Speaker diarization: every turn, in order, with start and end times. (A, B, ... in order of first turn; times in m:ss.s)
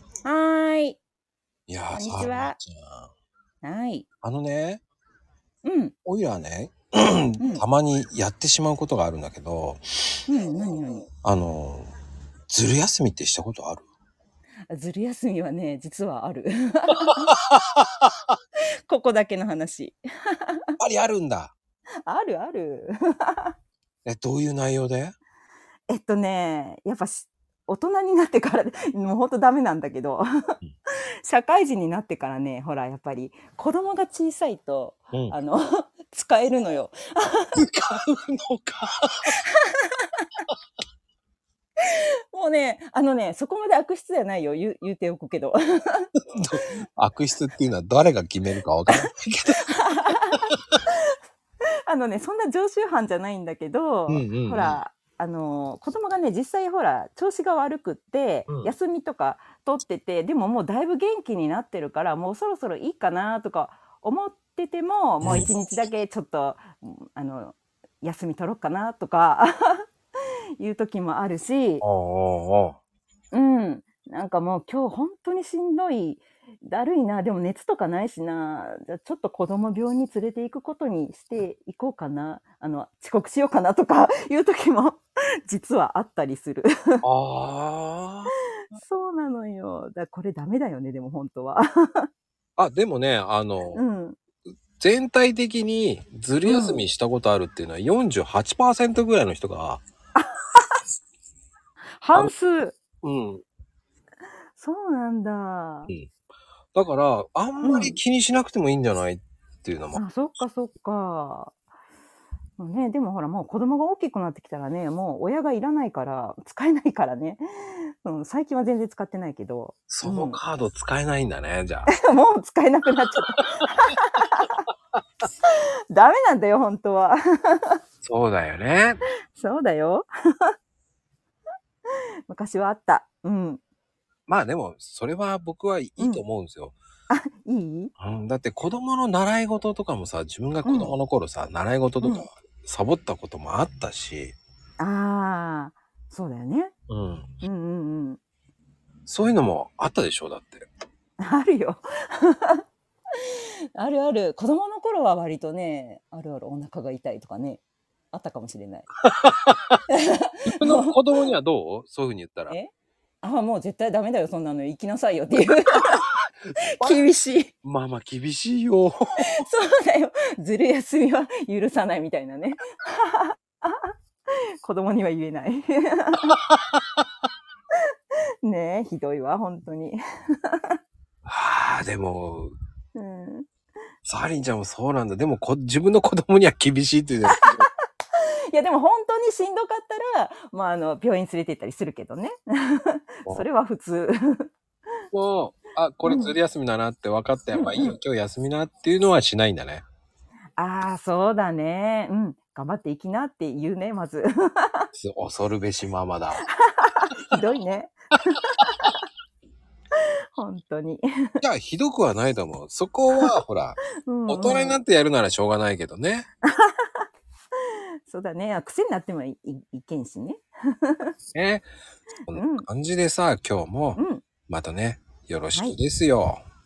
0:00.2-0:01.0 A
0:01.7-0:03.1 B
0:01.9-0:02.6 A
0:03.6-0:04.0 A
0:04.2-0:04.8 B
0:05.6-0:05.9 A
0:06.0-0:10.2 B
0:10.3-0:11.1 A
0:11.2-0:11.9 B
0:12.5-0:13.8 B
0:14.7-0:17.3 A
0:17.0-0:18.0 B
0:18.9-0:20.6 A
0:20.8-0:21.5 B
0:22.0-0:23.5 A
0:24.0-0:25.1 B
0:25.9-0:30.2 A
0:31.2-0:37.6 A
0:37.6-0:39.3 B
0:39.4-0:40.3 A
0:41.8-0:46.1 A
0:46.3-0:49.7 B
0:49.7-0:51.2 A
0:51.9-1:09.8 A
0:54.1-0:54.8 B
1:05.2-1:05.5 B
1:10.6-1:11.8 A
1:11.8-1:12.8 B
1:13.3-1:27.0 A
1:27.0-1:28.3 B
1:28.7-1:32.0 A
1:32.6-1:33.8 B
1:33.7-1:34.2 A
1:34.8-1:39.8 B
1:36.4-1:36.8 A
1:40.1-1:40.6 A
1:42.0-1:42.8 A
1:43.0-1:43.4 B
1:44.6-1:45.9 A
1:46.7-1:50.0 B
1:47.6-1:48.0 A
1:49.9-1:51.5 A
1:52.6-2:00.4 A
1:59.9-2:01.9 B
2:01.9-2:04.6 A
2:05.4-2:07.8 A
2:08.0-2:09.0 B
2:09.3-2:10.5 A
2:12.3-2:13.6 A
2:14.3-2:16.8 B
2:17.1-2:17.9 A
2:18.0-2:24.4 B
2:20.6-2:20.9 A
2:22.0-2:22.2 A
2:24.8-2:26.7 A
2:26.9-2:27.3 B
2:27.4-2:28.2 A
2:29.1-2:30.7 B
2:31.2-2:32.6 A
2:33.8-2:38.9 A
2:39.1-2:39.8 B
2:39.9-2:40.9 A
2:40.5-2:42.6 B
2:42.5-2:46.0 A
2:46.7-2:47.5 A
2:47.6-2:49.2 B
2:49.2-2:53.9 A
2:54.6-2:56.4 A
2:58.4-3:00.7 A
3:01.2-3:02.5 B
3:02.9-3:03.4 A
3:04.0-3:07.7 B
3:07.4-3:14.5 A
3:15.1-3:19.8 B
3:16.0-3:16.3 A
3:17.6-3:18.0 A
3:20.6-3:24.9 A
3:25.0-3:26.4 B
3:26.4-3:28.9 A
3:30.4-3:31.4 A
3:31.4-3:36.3 B
3:34.0-3:34.8 A
3:36.4-3:37.1 A
3:37.7-3:41.1 A
3:41.3-3:41.7 B
3:42.3-3:46.4 B
3:42.3-3:42.7 A
3:44.0-3:44.2 A